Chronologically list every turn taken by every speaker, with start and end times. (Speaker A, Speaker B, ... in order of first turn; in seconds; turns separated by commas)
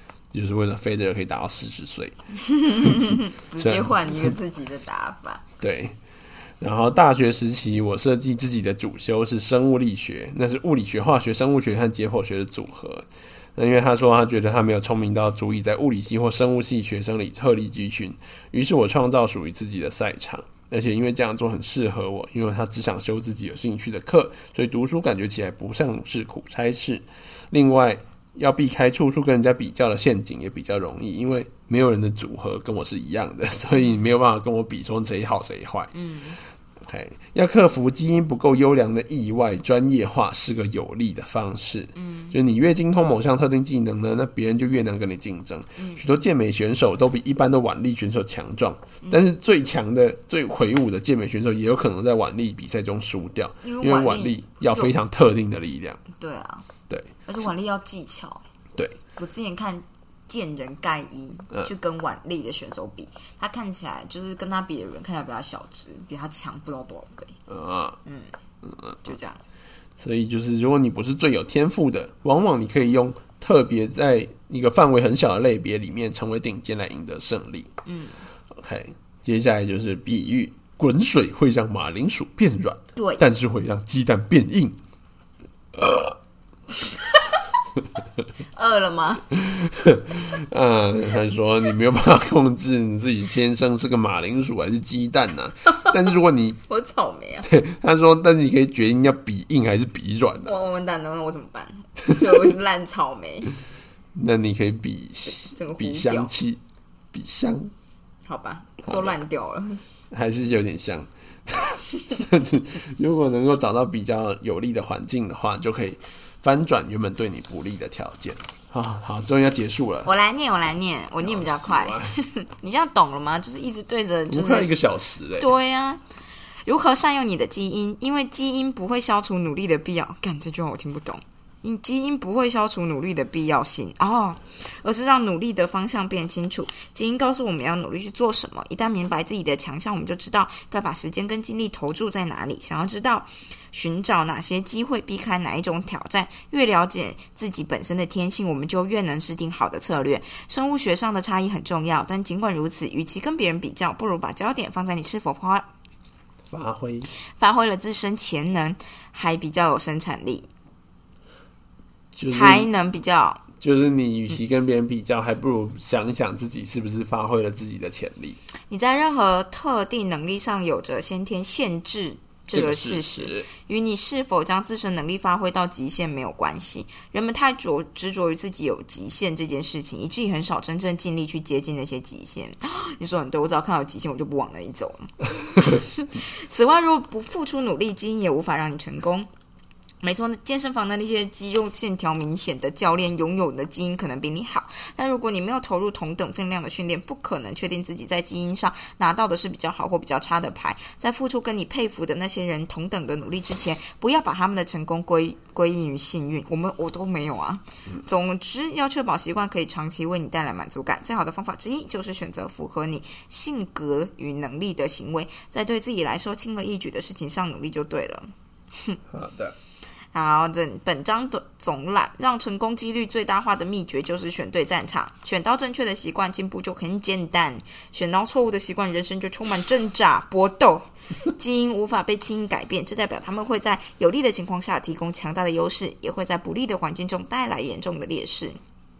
Speaker A: 0.3-4.3, Speaker B: 2.5-5.4, Speaker A: 5.6-6.0, Speaker A: 6.6-35.9, Speaker B: 35.9-36.4, Speaker A: 36.8-56.0, Speaker B: 42.0-42.4, Speaker B: 45.8-46.0, Speaker B: 53.6-54.9, Speaker B: 56.1-56.7, Speaker A: 56.9-57.2, Speaker B: 57.3-58.5, Speaker B: 59.1-67.4, Speaker A: 67.5-68.0, Speaker B: 68.0-68.3, Speaker A: 68.6-69.1, Speaker B: 69.0-69.4, Speaker A: 70.0-77.7, Speaker B: 77.8-78.2, Speaker A: 78.5-84.8, Speaker B: 83.0-83.2, Speaker A: 85.7-86.2, Speaker B: 88.5-89.3, Speaker A: 89.3-96.6, Speaker B: 96.7-97.5, Speaker A: 97.5-100.5, Speaker B: 100.4-103.6, Speaker A: 104.1-106.6, Speaker B: 105.3-106.3, Speaker A: 107.1-107.7, Speaker B: 108.3-109.8, Speaker A: 108.8-109.2, Speaker A: 110.1-120.1, Speaker B: 120.0-124.7, Speaker A: 121.2-122.1, Speaker A: 124.3-125.5, Speaker B: 125.4-126.0, Speaker B: 126.7-155.7, Speaker A: 156.5-157.1, Speaker B: 157.4-160.5, Speaker A: 162.1-162.7, Speaker B: 162.3-163.4, Speaker A: 163.6-168.4, Speaker B: 168.7-189.3, Speaker A: 172.5-173.5, Speaker B: 190.0-219.0, Speaker A: 219.1-219.6, Speaker B: 220.1-238.6